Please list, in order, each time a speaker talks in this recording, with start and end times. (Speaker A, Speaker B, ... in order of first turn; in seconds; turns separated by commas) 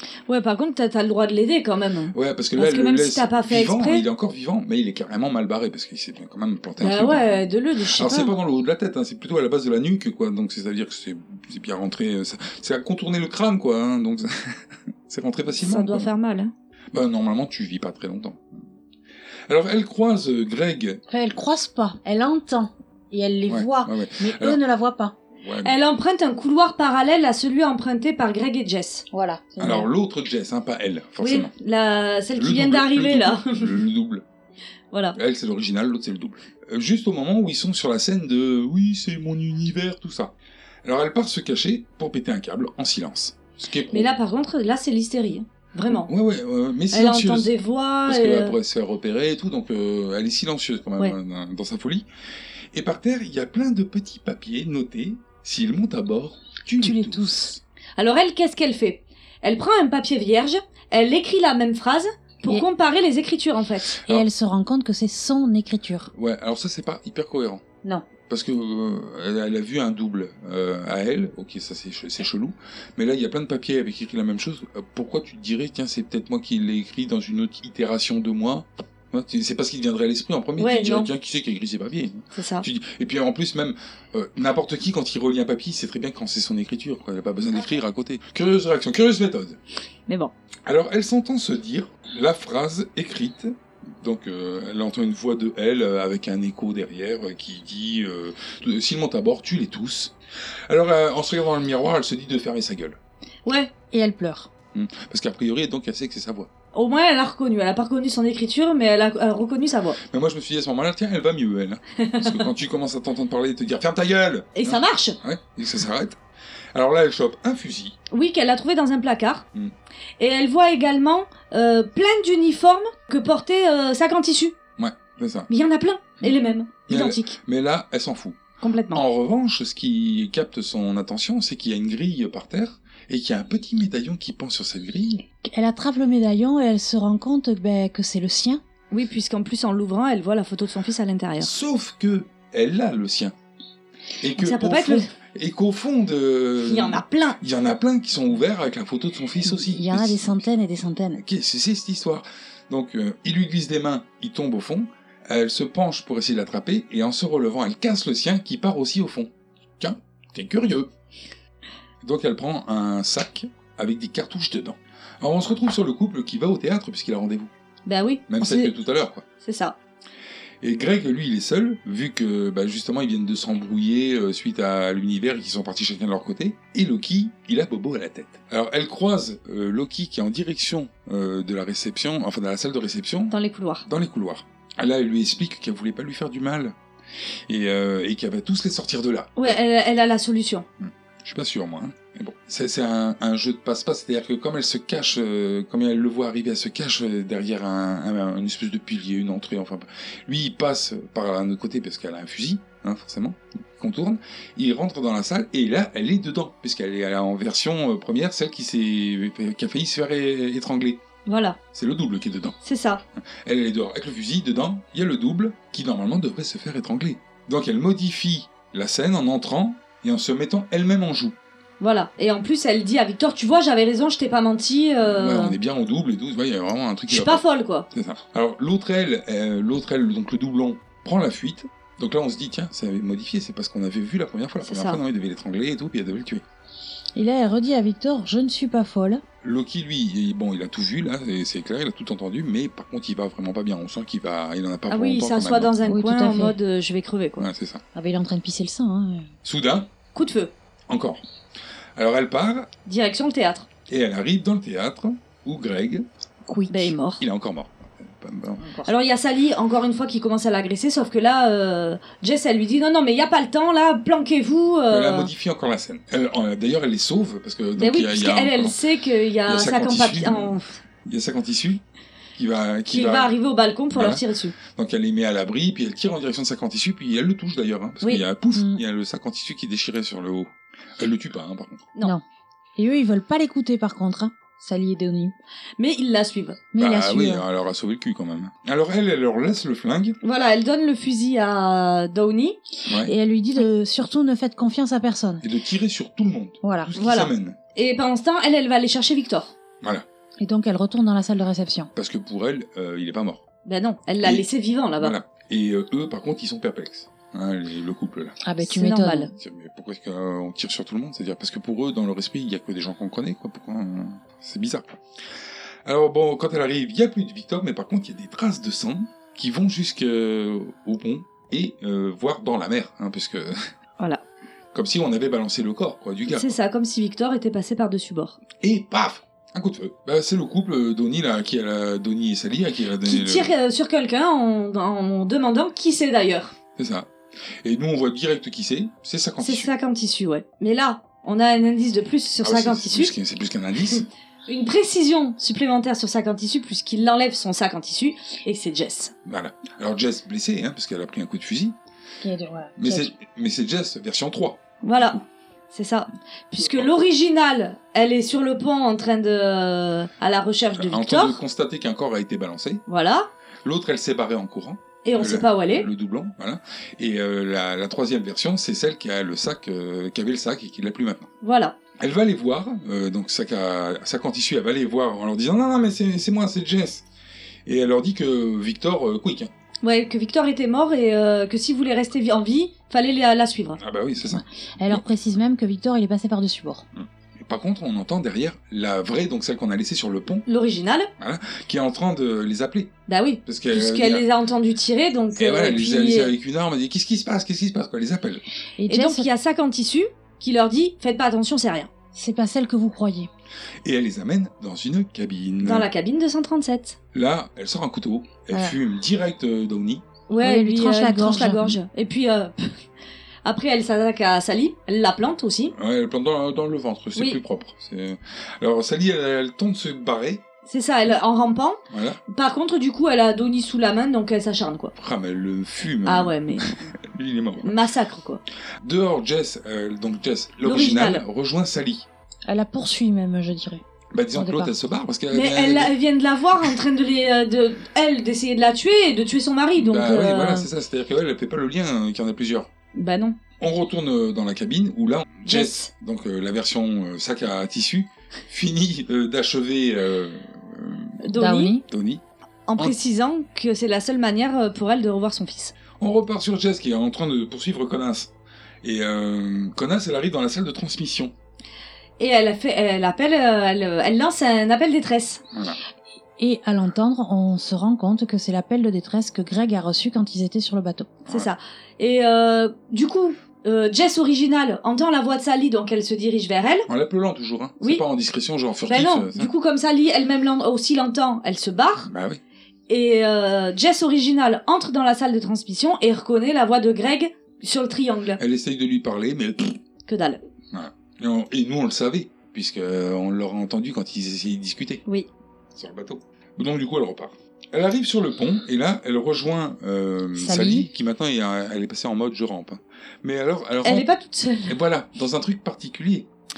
Speaker A: 0.3-4.0, Speaker B: 2.1-7.4, Speaker A: 6.8-8.3, Speaker B: 8.0-16.1, Speaker A: 15.6-16.5, Speaker B: 16.9-18.6, Speaker B: 19.5-21.0, Speaker C: 21.1-25.1, Speaker B: 23.5-24.6, Speaker B: 25.4-25.7, Speaker A: 25.6-29.1, Speaker C: 29.1-29.9, Speaker B: 29.6-31.5, Speaker A: 31.2-33.7, Speaker B: 32.3-34.2, Speaker B: 35.1-40.3, Speaker B: 40.8-44.1, Speaker A: 43.9-46.1, Speaker B: 45.9-47.5, Speaker A: 46.9-48.6, Speaker B: 48.1-52.1, Speaker B: 52.7-57.6, Speaker C: 56.8-57.6, Speaker A: 58.0-64.0, Speaker C: 64.1-66.1, Speaker B: 66.1-67.6, Speaker B: 68.3-89.6, Speaker A: 80.6-81.1, Speaker A: 82.3-82.7, Speaker A: 90.1-90.3, Speaker B: 90.7-100.1, Speaker B: 100.7-103.0, Speaker A: 103.5-103.7, Speaker C: 103.9-104.5, Speaker B: 104.7-106.5, Speaker A: 106.7-110.0, Speaker B: 110.1-116.2, Speaker A: 112.0-112.5, Speaker A: 114.6-115.2, Speaker B: 116.7-118.0, Speaker A: 118.1-119.5, Speaker A: 120.2-124.5, Speaker B: 124.8-125.5, Speaker A: 125.5-127.4, Speaker B: 126.2-128.4, Speaker A: 128.6-129.0, Speaker B: 128.9-135.2, Speaker C: 135.4-138.6, Speaker A: 138.9-141.5, Speaker B: 141.4-143.3, Speaker B: 144.2-150.4, Speaker A: 144.4-145.1, Speaker A: 146.6-147.4, Speaker C: 149.4-151.2, Speaker B: 151.2-160.9, Speaker B: 162.0-167.5, Speaker A: 167.9-168.7, Speaker B: 168.3-169.2, Speaker A: 169.4-169.8, Speaker B: 170.6-183.3, Speaker A: 183.3-183.9, Speaker B: 183.9-186.8, Speaker B: 187.5-189.6, Speaker A: 189.4-190.7, Speaker B: 190.8-211.0, Speaker A: 211.3-211.6, Speaker B: 211.7-212.6, Speaker A: 212.6-213.0, Speaker B: 213.4-221.3, Speaker A: 221.8-225.6, Speaker B: 225.0-236.4, Speaker A: 227.1-227.9, Speaker A: 234.6-235.0, Speaker C: 237.2-239.2, Speaker B: 239.4-245.7, Speaker A: 244.9-247.5, Speaker C: 245.9-246.6, Speaker B: 247.4-247.8, Speaker C: 247.9-249.3, Speaker B: 249.4-249.9, Speaker A: 250.1-250.5, Speaker B: 250.9-251.2, Speaker B: 252.0-252.7, Speaker A: 252.9-253.7, Speaker B: 253.9-256.1, Speaker C: 256.5-256.9, Speaker A: 256.7-257.2, Speaker B: 257.2-258.7, Speaker C: 258.6-258.9, Speaker A: 258.9-265.3, Speaker B: 264.9-268.8, Speaker A: 267.8-270.8, Speaker B: 269.5-271.8, Speaker B: 272.4-273.3, Speaker A: 272.9-274.6, Speaker B: 273.9-281.9, Speaker C: 278.5-278.8, Speaker C: 282.8-285.4, Speaker A: 285.8-286.6, Speaker C: 286.7-287.4, Speaker B: 286.8-290.2, Speaker A: 290.2-292.6, Speaker B: 292.9-293.1, Speaker C: 293.0-295.4, Speaker B: 295.4-297.6, Speaker C: 296.6-296.9, Speaker A: 297.0-299.5, Speaker C: 300.4-301.9, Speaker B: 301.9-303.4, Speaker A: 303.7-305.1, Speaker B: 304.2-304.5, Speaker B: 305.0-308.4, Speaker C: 308.4-309.3, Speaker A: 308.6-309.3, Speaker B: 309.4-315.0, Speaker B: 315.9-323.6, Speaker B: 324.7-326.6, Speaker A: 326.3-328.4, Speaker B: 328.6-333.5, Speaker A: 333.1-336.5, Speaker B: 336.8-337.1, Speaker B: 337.6-339.7, Speaker A: 339.4-343.1, Speaker B: 342.4-344.1, Speaker A: 344.5-349.1, Speaker B: 349.3-351.8, Speaker C: 352.2-353.1, Speaker B: 352.8-355.2, Speaker A: 354.8-355.2, Speaker A: 355.7-361.4, Speaker B: 356.6-356.9, Speaker B: 360.8-362.8, Speaker A: 362.9-363.3, Speaker B: 363.6-371.3, Speaker A: 365.0-365.9, Speaker A: 371.4-371.8, Speaker B: 372.0-377.1, Speaker B: 377.7-379.5, Speaker A: 379.8-383.8, Speaker B: 383.8-385.1, Speaker C: 384.2-386.9, Speaker B: 386.9-390.4, Speaker A: 390.5-391.1, Speaker B: 391.2-394.3, Speaker A: 393.1-396.3, Speaker B: 395.4-398.4, Speaker C: 398.8-399.3, Speaker A: 398.9-401.9, Speaker C: 402.1-403.3, Speaker B: 403.8-405.9, Speaker A: 405.6-407.0, Speaker B: 407.1-410.0, Speaker A: 410.3-412.8, Speaker C: 410.4-411.8, Speaker A: 413.4-415.7, Speaker B: 415.7-420.4, Speaker A: 420.7-424.9, Speaker B: 421.9-422.2, Speaker B: 425.0-427.8, Speaker A: 426.1-426.8, Speaker A: 427.6-428.4, Speaker B: 428.8-432.1, Speaker A: 430.6-431.2, Speaker C: 432.5-433.8, Speaker B: 434.1-435.9, Speaker C: 434.3-434.7, Speaker A: 435.3-440.7, Speaker B: 439.8-442.7, Speaker A: 442.9-443.4, Speaker B: 443.6-451.2, Speaker A: 445.5-445.9, Speaker A: 451.2-451.8, Speaker C: 451.3-451.8, Speaker B: 451.9-452.2, Speaker A: 452.7-455.7, Speaker B: 456.0-458.3, Speaker B: 458.8-461.3, Speaker A: 462.2-465.4, Speaker B: 465.5-465.8, Speaker C: 466.4-471.2, Speaker A: 471.3-476.9, Speaker B: 476.9-479.5, Speaker A: 478.9-482.1, Speaker B: 482.0-482.4, Speaker A: 482.9-488.4, Speaker B: 488.4-489.8, Speaker A: 490.1-490.4, Speaker B: 490.7-495.0, Speaker B: 495.8-504.1, Speaker C: 500.4-500.9, Speaker A: 503.8-504.8, Speaker B: 504.7-506.3